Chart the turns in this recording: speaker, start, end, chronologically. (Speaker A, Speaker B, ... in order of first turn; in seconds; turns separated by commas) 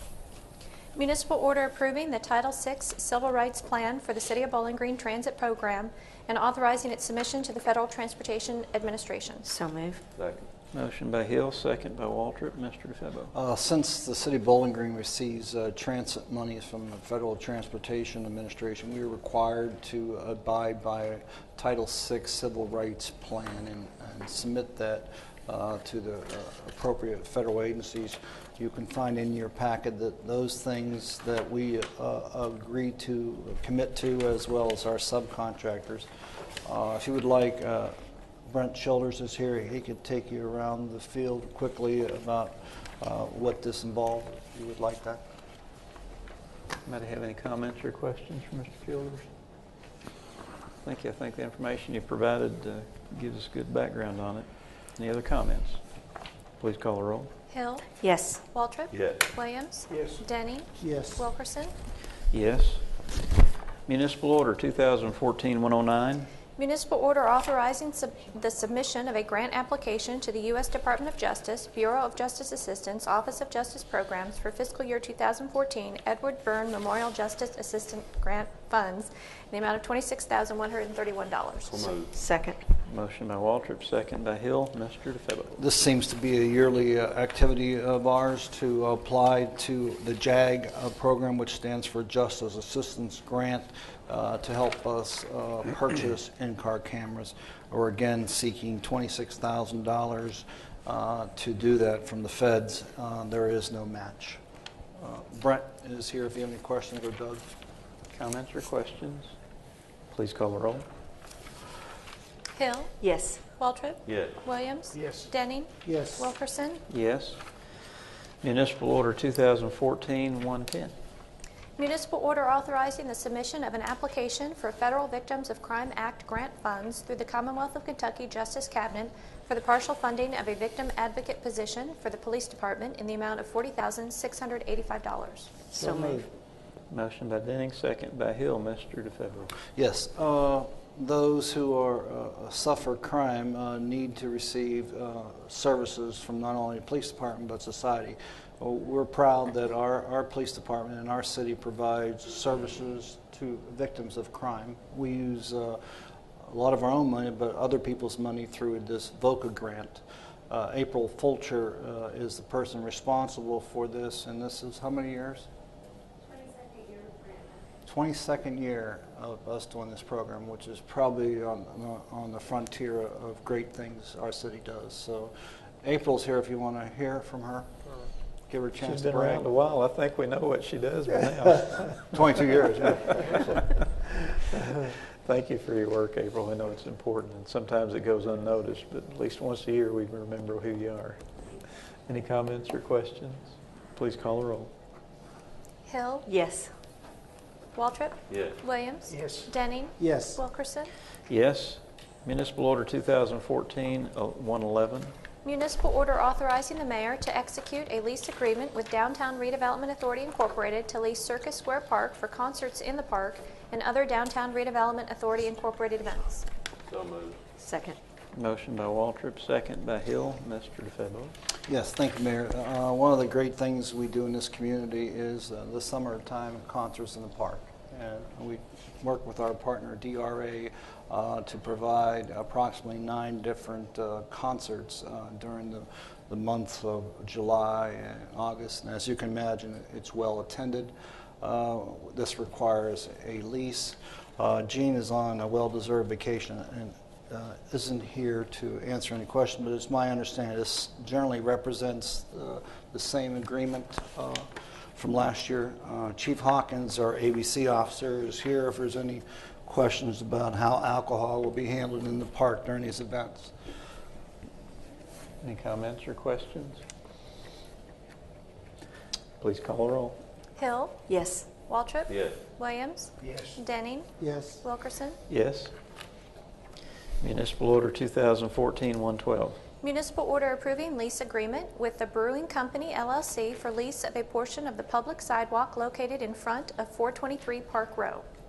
Speaker A: 1.0-9.5, Speaker B: 9.4-10.0, Speaker C: 10.1-10.5, Speaker D: 10.7-13.3, Speaker E: 13.3-36.1, Speaker E: 36.6-45.2, Speaker D: 46.8-49.3, Speaker D: 50.8-55.8, Speaker D: 56.6-57.3, Speaker A: 57.5-58.0, Speaker B: 58.0-58.4, Speaker A: 58.5-61.7, Speaker C: 58.9-59.2, Speaker B: 60.8-61.2, Speaker D: 62.3-62.8, Speaker D: 63.9-66.3, Speaker A: 66.6-81.9, Speaker C: 81.6-82.2, Speaker B: 82.2-82.6, Speaker D: 82.8-85.6, Speaker E: 85.6-104.4, Speaker E: 105.0-107.5, Speaker D: 108.1-109.3, Speaker D: 110.1-110.9, Speaker A: 112.5-113.0, Speaker B: 113.0-113.4, Speaker A: 113.6-116.8, Speaker C: 114.1-114.4, Speaker B: 115.9-116.3, Speaker D: 116.9-117.4, Speaker D: 118.4-120.9, Speaker A: 121.8-135.6, Speaker B: 135.7-136.3, Speaker D: 136.9-139.5, Speaker E: 139.8-155.8, Speaker E: 156.4-165.5, Speaker B: 166.6-166.9, Speaker E: 167.9-177.7, Speaker E: 178.5-179.5, Speaker D: 178.8-182.2, Speaker E: 182.1-183.6, Speaker D: 183.1-191.2, Speaker D: 192.1-194.7, Speaker A: 195.9-196.3, Speaker B: 196.3-196.7, Speaker A: 197.8-200.9, Speaker C: 198.3-198.6, Speaker B: 200.0-200.4, Speaker D: 201.3-205.1, Speaker A: 205.4-216.5, Speaker C: 216.9-217.4, Speaker B: 217.6-218.0, Speaker D: 218.3-221.3, Speaker E: 221.7-263.5, Speaker D: 265.4-266.8, Speaker D: 269.4-270.2, Speaker A: 270.6-271.0, Speaker B: 271.1-271.5, Speaker A: 271.6-275.2, Speaker C: 272.1-272.4, Speaker B: 274.2-274.6, Speaker D: 275.3-275.7, Speaker D: 277.2-279.6, Speaker A: 279.8-288.2